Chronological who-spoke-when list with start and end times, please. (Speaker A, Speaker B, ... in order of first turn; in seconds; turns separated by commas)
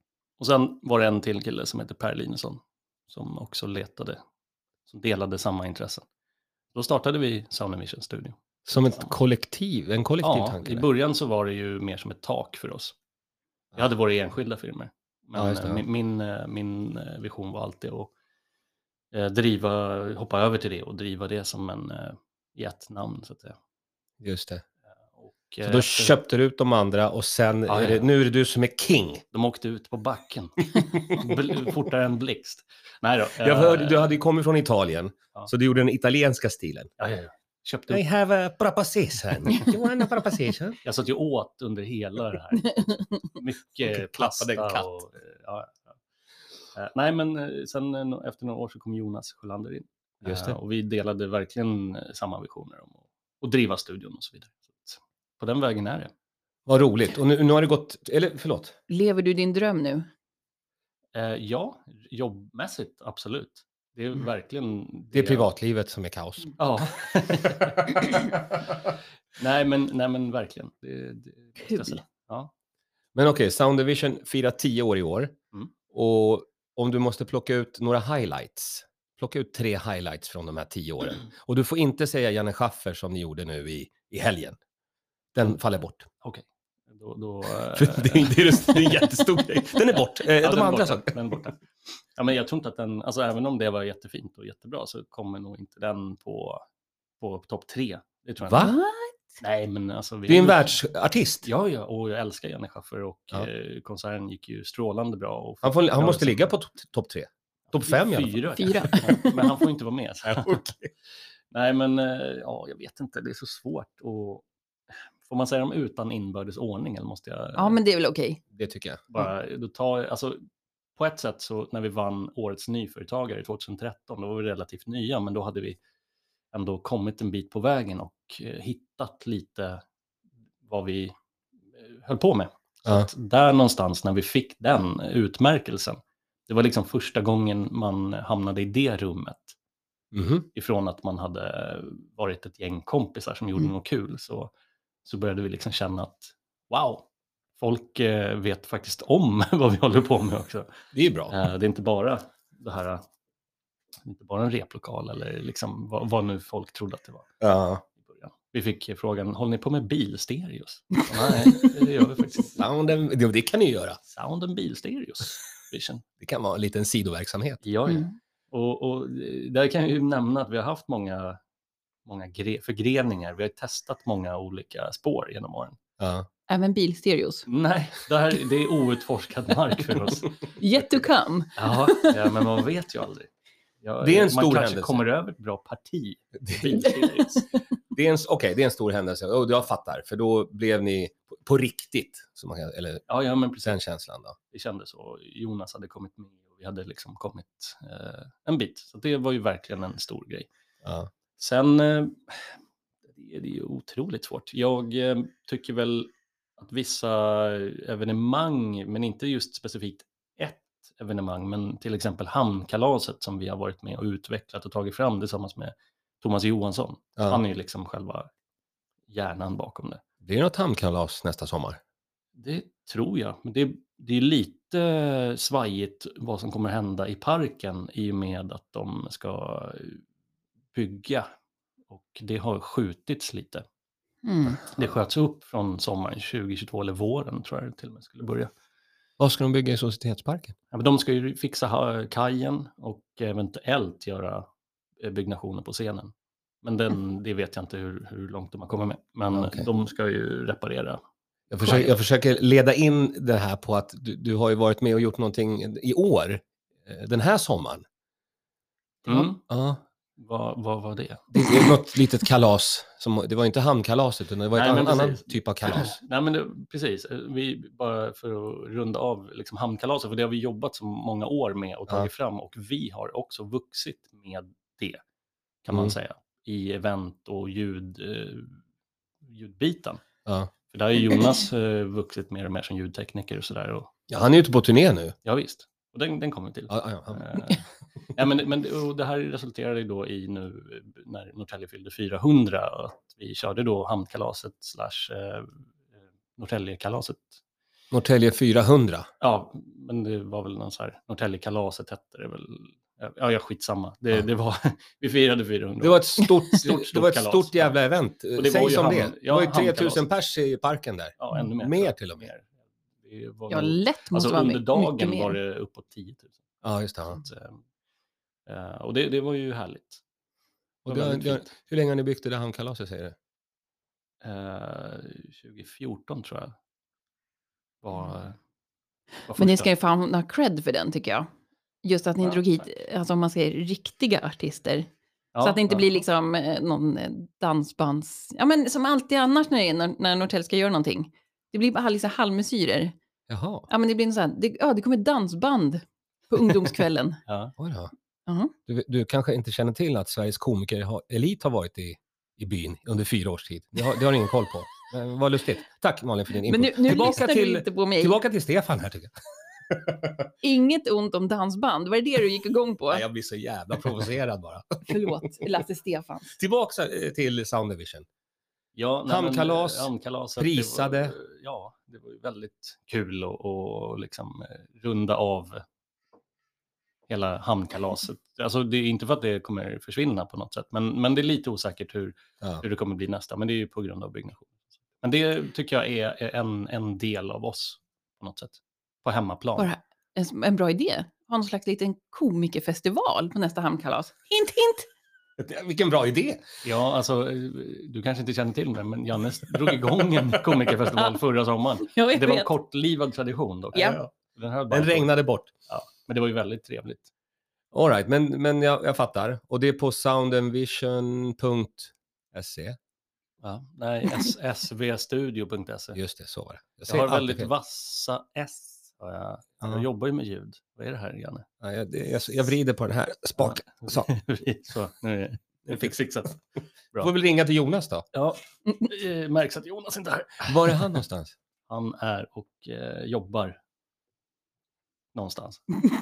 Speaker A: 0.4-4.2, Speaker A: 4.9-6.1, Speaker A: 6.7-9.1, Speaker B: 8.7-10.9, Speaker A: 10.2-12.9, Speaker A: 13.8-18.1, Speaker B: 15.3-15.8, Speaker A: 19.1-23.6, Speaker B: 24.2-24.6, Speaker A: 25.1-26.1, Speaker B: 25.6-29.2, Speaker A: 27.7-28.1, Speaker A: 29.3-34.1, Speaker B: 33.4-36.9, Speaker A: 37.0-38.0, Speaker B: 37.9-40.8, Speaker A: 40.8-46.0, Speaker B: 43.8-45.0, Speaker A: 46.7-56.1, Speaker B: 50.2-50.6, Speaker B: 56.6-58.8, Speaker C: 58.9-60.1, Speaker A: 61.1-65.5, Speaker B: 65.1-66.6, Speaker A: 66.6-68.2, Speaker B: 67.5-68.8, Speaker A: 69.4-72.5, Speaker C: 71.6-72.0, Speaker B: 73.1-75.3, Speaker B: 75.9-84.6, Speaker B: 85.3-86.1, Speaker A: 86.2-89.2, Speaker B: 87.7-91.4, Speaker A: 89.9-96.6, Speaker A: 97.2-98.7, Speaker B: 98.5-98.7, Speaker C: 98.5-99.4, Speaker A: 99.4-100.8, Speaker B: 100.3-101.5, Speaker A: 101.4-106.5, Speaker B: 105.6-108.4, Speaker A: 107.7-110.6, Speaker C: 108.6-109.6, Speaker B: 110.3-110.9, Speaker A: 111.5-117.8, Speaker C: 117.6-118.4, Speaker B: 118.5-119.0, Speaker A: 119.1-120.4, Speaker A: 121.0-125.8, Speaker A: 126.5-129.8, Speaker A: 130.6-131.1, Speaker A: 131.7-139.6, Speaker B: 140.1-140.5, Speaker A: 140.5-144.5, Speaker A: 145.1-147.1, Speaker A: 147.6-150.7, Speaker B: 150.9-151.4, Speaker A: 151.3-153.0, Speaker A: 154.0-157.3, Speaker B: 157.4-157.8, Speaker A: 158.0-162.6, Speaker B: 162.5-164.0, Speaker A: 164.1-166.0, Speaker B: 166.2-167.6, Speaker A: 167.6-171.4, Speaker A: 172.1-175.8, Speaker B: 176.0-176.3, Speaker C: 176.5-177.5, Speaker A: 177.5-180.4, Speaker C: 180.6-182.3, Speaker A: 181.6-183.3, Speaker A: 183.8-187.5, Speaker B: 184.0-185.1, Speaker B: 186.4-186.8, Speaker B: 187.9-193.0, Speaker A: 193.1-193.8, Speaker B: 193.6-194.4, Speaker A: 194.5-200.5, Speaker B: 200.8-201.1, Speaker A: 201.4-202.6, Speaker A: 203.1-218.3, Speaker B: 217.2-217.4, Speaker A: 219.1-220.0, Speaker B: 220.2-221.8, Speaker A: 222.4-230.0, Speaker A: 230.7-231.3, Speaker A: 231.9-233.7, Speaker C: 234.2-234.6, Speaker A: 234.7-238.5, Speaker B: 239.2-240.6, Speaker A: 240.7-244.5, Speaker A: 245.0-246.1, Speaker A: 246.6-251.0, Speaker B: 249.3-249.7, Speaker B: 251.5-257.9, Speaker A: 251.6-251.9, Speaker A: 259.1-259.4, Speaker B: 259.1-259.8, Speaker A: 260.2-261.3, Speaker B: 261.3-265.9, Speaker A: 264.6-275.0, Speaker A: 275.6-278.6, Speaker B: 275.7-275.9, Speaker A: 279.2-280.0, Speaker B: 280.2-280.5, Speaker A: 280.7-283.9, Speaker B: 284.1-285.1, Speaker A: 285.2-287.6, Speaker B: 286.7-287.5, Speaker A: 288.1-295.7, Speaker A: 296.4-297.4, Speaker B: 297.9-299.1, Speaker A: 299.2-307.8, Speaker B: 305.8-312.3, Speaker A: 308.4-310.0, Speaker A: 311.2-316.4, Speaker C: 313.5-315.4, Speaker B: 316.6-317.2, Speaker A: 317.2-317.6, Speaker A: 318.5-320.0, Speaker B: 320.9-323.1, Speaker A: 320.9-321.5, Speaker A: 324.2-326.6, Speaker A: 327.8-328.4, Speaker A: 329.3-329.7, Speaker C: 329.4-331.3, Speaker C: 331.8-334.9, Speaker A: 335.3-336.0, Speaker C: 335.4-343.0, Speaker B: 343.3-343.7, Speaker C: 343.7-347.2, Speaker A: 347.3-347.5, Speaker B: 347.6-347.9, Speaker C: 348.3-348.5, Speaker B: 348.7-359.1, Speaker C: 356.5-358.2, Speaker B: 359.7-360.3, Speaker C: 360.4-363.0, Speaker B: 362.9-365.5, Speaker C: 364.9-366.4, Speaker B: 366.4-368.1, Speaker A: 368.8-375.6, Speaker B: 369.1-371.1, Speaker A: 377.1-389.7, Speaker C: 389.6-394.9, Speaker B: 395.4-396.5, Speaker A: 396.6-405.1, Speaker C: 401.8-402.5, Speaker C: 403.7-404.0, Speaker B: 403.8-404.1, Speaker B: 404.7-405.5, Speaker A: 405.7-407.1, Speaker B: 407.7-412.8, Speaker A: 413.4-416.0, Speaker B: 416.0-417.5, Speaker A: 416.9-421.5, Speaker B: 421.6-424.1, Speaker A: 423.4-426.4, Speaker B: 425.6-425.9, Speaker B: 427.0-428.1, Speaker A: 428.1-431.0, Speaker B: 430.4-431.4, Speaker A: 431.7-433.6, Speaker A: 435.1-435.8